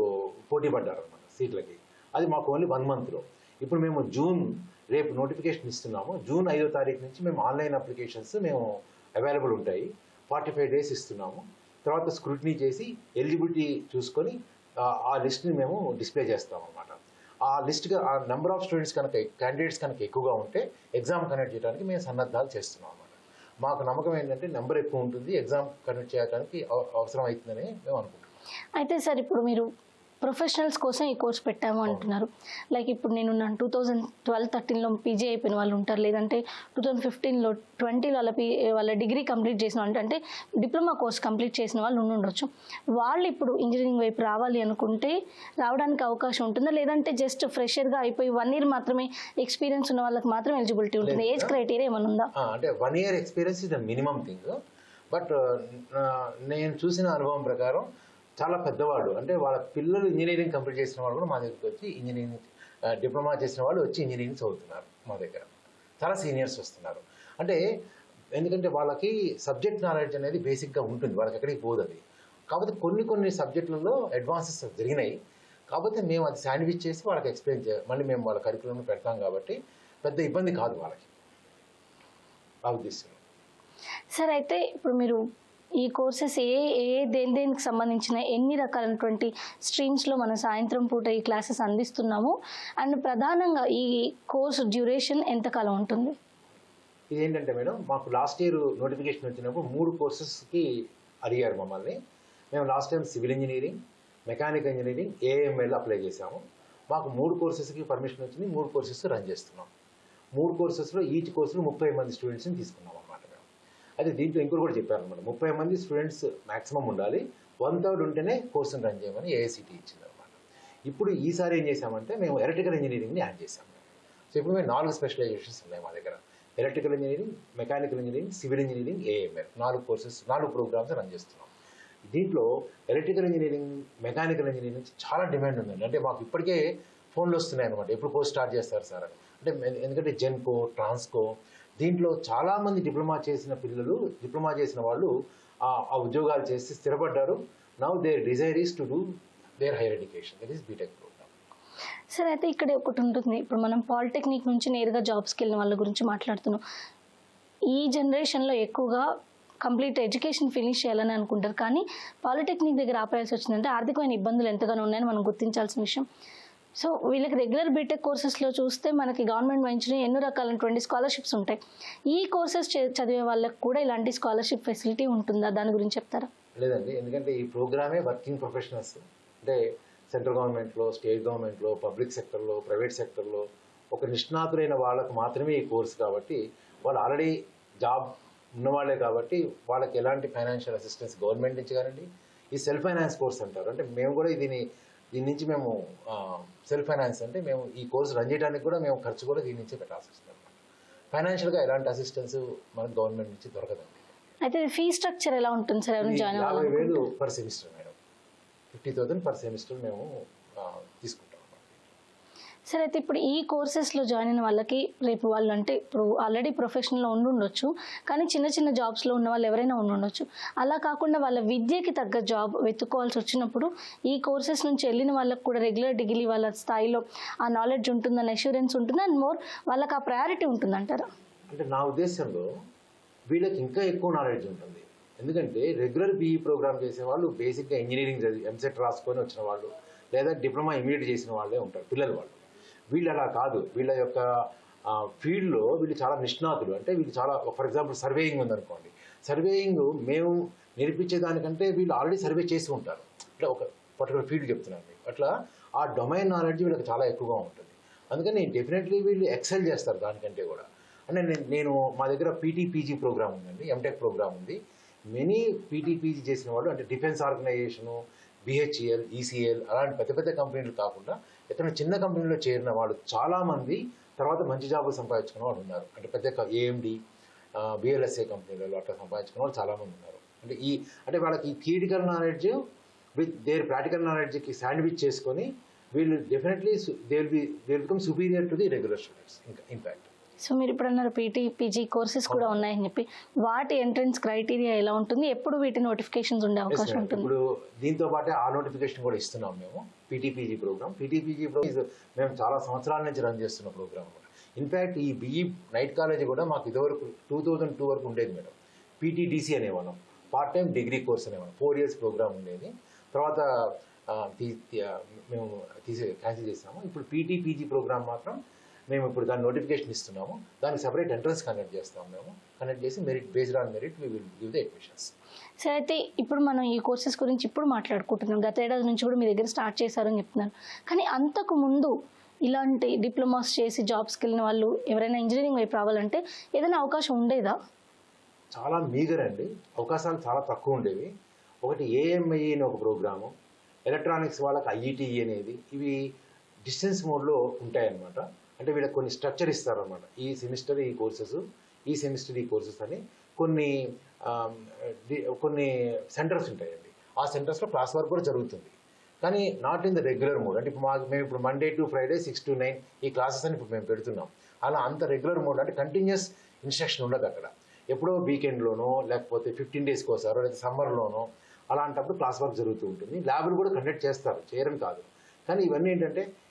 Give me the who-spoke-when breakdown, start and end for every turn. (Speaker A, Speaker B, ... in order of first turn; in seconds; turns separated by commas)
Speaker A: 0.5-28.3, Speaker B: 28.8-29.7, Speaker B: 30.2-52.3, Speaker A: 51.0-51.6, Speaker A: 52.4-54.5, Speaker A: 55.1-57.9, Speaker A: 58.4-62.4, Speaker A: 62.9-67.6, Speaker A: 68.3-75.1, Speaker A: 75.7-81.1, Speaker A: 82.7-83.2, Speaker B: 84.1-85.2, Speaker B: 85.8-96.1, Speaker A: 97.1-100.7, Speaker A: 101.2-102.0, Speaker A: 102.5-109.7, Speaker A: 110.3-113.4, Speaker A: 114.0-120.3, Speaker A: 120.9-123.8, Speaker A: 124.3-131.5, Speaker A: 132.1-141.3, Speaker A: 141.8-145.1, Speaker A: 145.7-149.0, Speaker A: 149.6-151.3, Speaker B: 152.1-156.6, Speaker B: 157.7-159.1, Speaker B: 159.6-166.0, Speaker B: 166.8-171.6, Speaker B: 172.1-176.3, Speaker A: 176.6-179.6, Speaker A: 180.1-194.6, Speaker A: 195.1-200.6, Speaker A: 201.1-204.0, Speaker B: 204.4-207.1, Speaker A: 206.0-207.9, Speaker A: 208.7-210.1, Speaker A: 210.6-211.8, Speaker B: 212.7-231.1, Speaker A: 231.5-232.5, Speaker A: 233.3-242.4, Speaker A: 242.9-244.2, Speaker A: 244.9-264.6, Speaker A: 265.1-277.0, Speaker A: 277.6-282.6, Speaker A: 283.2-290.1, Speaker B: 290.4-297.3, Speaker A: 292.3-292.6, Speaker A: 296.7-313.5, Speaker A: 314.1-318.4, Speaker A: 318.9-325.1, Speaker B: 325.6-331.9, Speaker B: 332.4-337.6, Speaker A: 338.5-341.1, Speaker A: 341.6-343.3, Speaker A: 343.9-346.0, Speaker A: 346.6-353.7, Speaker A: 354.2-376.2